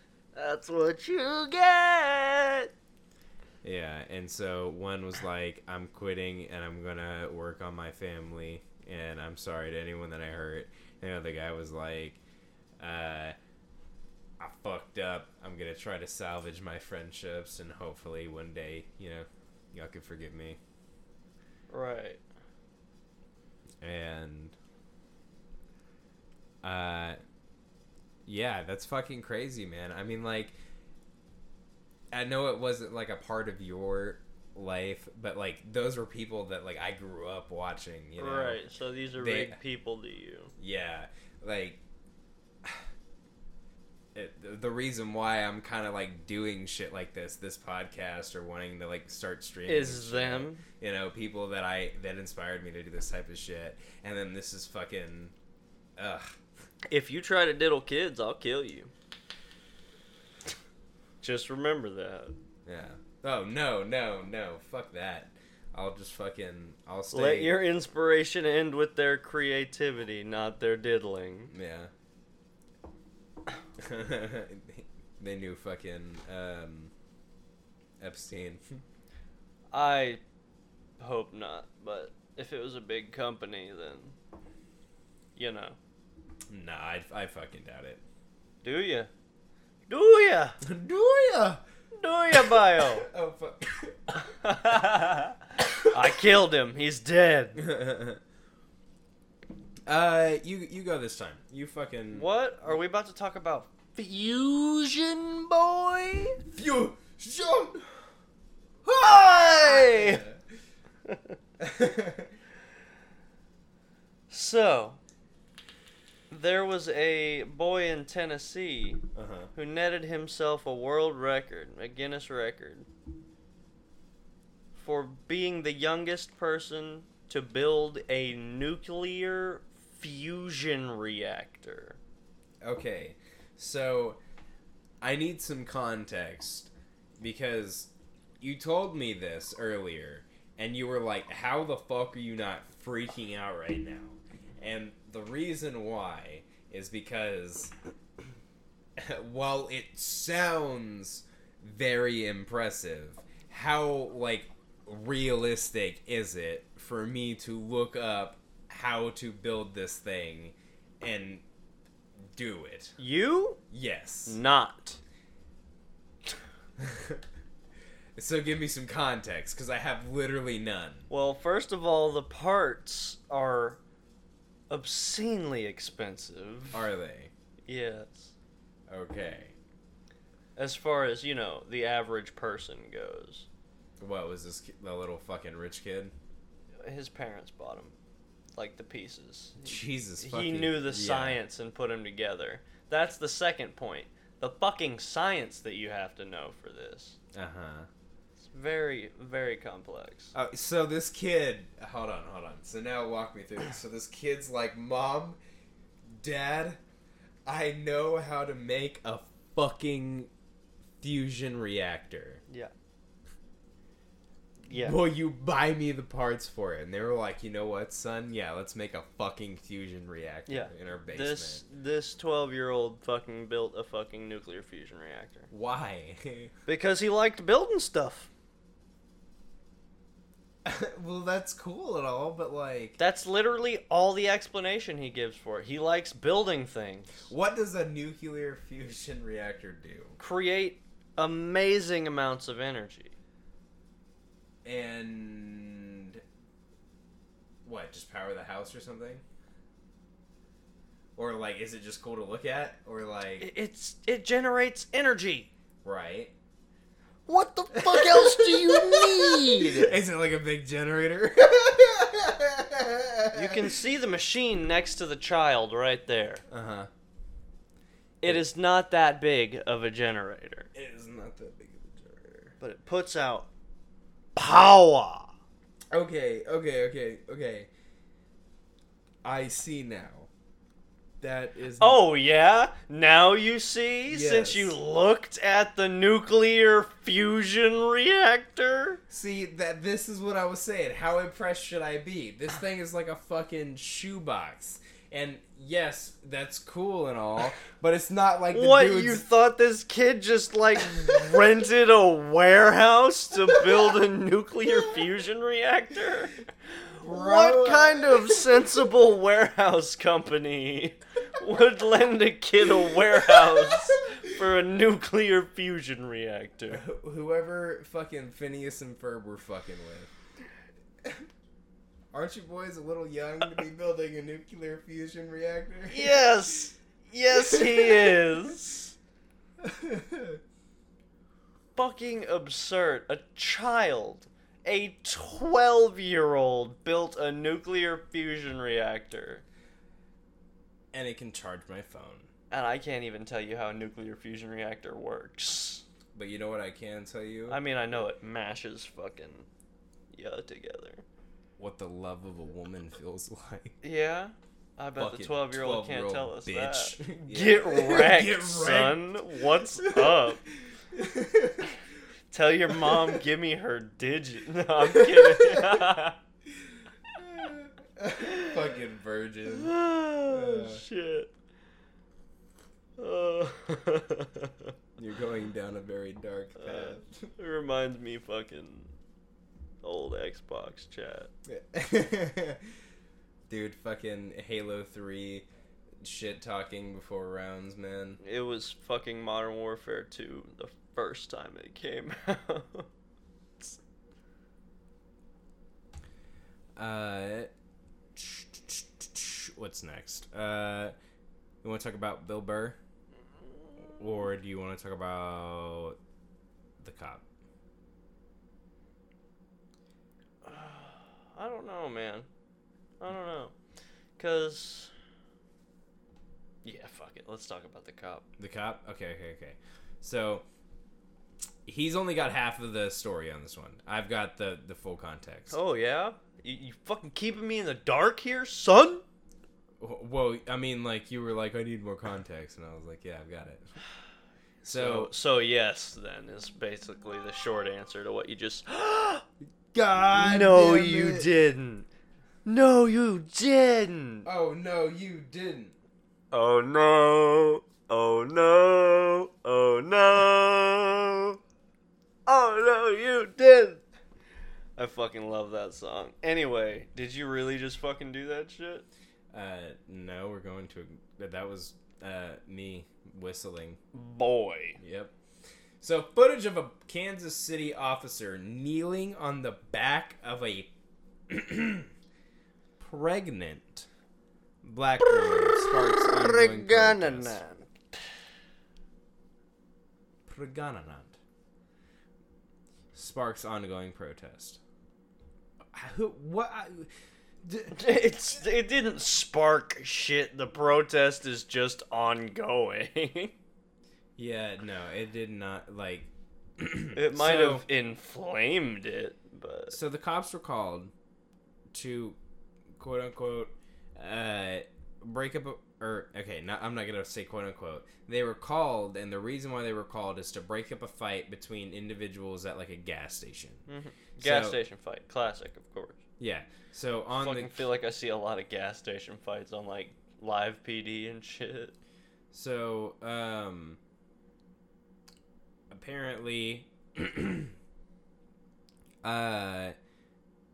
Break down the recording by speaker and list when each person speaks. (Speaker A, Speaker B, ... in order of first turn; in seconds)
Speaker A: 0.3-2.7, 21.7-22.2, 38.2-40.5, 49.7-50.6, 56.9-58.9, 61.2-62.3, 67.1-71.5, 79.7-80.2, 81.0-84.1, 85.3-85.8, 88.6-89.1, 89.9-90.6, 92.0-93.1, 94.2-97.6, 102.1-106.4, 108.8-110.2, 111.1-111.3, 114.3-115.0, 116.3-119.0, 119.5-122.9, 124.7-132.0, 163.0-163.6, 164.3-165.0, 171.1-173.8, 174.7-176.8, 177.7-178.3, 180.6-183.5, 186.8-187.9, 188.5-197.2, 198.4-200.3, 212.5-212.7, 214.6-215.0, 220.5-225.5, 226.7-228.3, 233.0-237.3, 240.2-243.1, 253.4-255.5, 257.3-260.0, 263.3-266.4, 268.2-270.7, 272.6-273.5, 274.4-275.3, 281.8-289.0, 298.5-306.4, 307.0-316.8, 325.9-328.9, 331.8-339.4, 342.5-345.8, 347.5-349.5, 350.1-351.0, 353.8-360.4, 362.3-366.2, 368.2-368.6, 369.5-371.3, 373.0-374.7, 376.6-378.9, 379.8-381.3, 388.2-392.9, 410.4-412.3, 413.0-413.5, 414.2-414.9, 416.6-418.3, 425.5-429.0, 434.6-439.2, 440.1-441.9, 442.4-444.3, 446.3-451.4, 452.3-453.8, 454.8-458.9, 463.9-464.8, 475.2-478.0, 487.7-493.3, 496.9-499.8, 513.7-516.0, 517.1-521.7
Speaker B: 3.6-12.2, 12.8-13.3, 14.4-20.6, 23.8-24.5, 26.6-27.2, 28.2-30.6, 32.1-38.6, 39.2-39.6, 40.6-41.8, 44.1-55.3, 56.0-56.4, 62.6-67.6, 71.5-71.9, 73.8-76.9, 78.0-78.8, 86.5-88.0, 90.6-91.6, 92.3-94.2, 97.6-98.2, 99.8-102.2, 106.5-107.9, 109.0-110.4, 111.6-112.3, 119.1-119.5, 132.6-134.2, 135.0-147.7, 149.0-161.4, 162.3-163.0, 163.7-164.4, 166.8-167.2, 168.2-171.1, 176.7-177.3, 178.9-179.5, 184.0-186.1, 189.6-191.4, 197.3-197.9, 200.3-205.4, 206.1-206.8, 207.4-210.3, 211.0-212.4, 214.7-221.6, 225.5-226.5, 230.6-233.0, 237.3-240.2, 244.6-246.2, 247.6-249.2, 251.2-253.5, 255.8-256.3, 257.7-263.7, 266.5-266.9, 270.7-272.5, 275.9-277.7, 279.2-280.3, 281.2-282.0, 284.1-284.8, 289.1-299.2, 307.0-308.5, 312.9-314.2, 316.7-320.1, 322.1-326.6, 327.3-328.2, 329.6-330.4, 340.9-342.3, 346.1-347.6, 351.6-353.8, 355.0-360.3, 360.9-361.7, 362.7-363.2, 364.9-365.9, 367.1-369.7, 370.3-370.8, 375.0-377.3, 381.5-382.6, 383.5-385.5, 386.0-388.2, 396.8-397.5, 398.1-400.9, 401.6-402.8, 403.8-406.0, 406.8-407.2, 418.4-420.4, 421.6-425.5, 429.8-433.6, 434.6-435.1, 439.7-441.3, 444.2-445.7, 459.3-463.8, 464.8-465.1, 465.8-470.7, 471.3-471.9, 472.8-473.9, 474.6-477.4, 480.2-481.2, 482.9-484.6, 485.7-486.9, 487.4-487.8, 494.2-497.6, 499.7-500.9, 501.7-502.2, 502.8-513.6, 514.2-514.6, 516.2-517.7, 522.3-523.8, 525.7-527.5, 529.0-529.8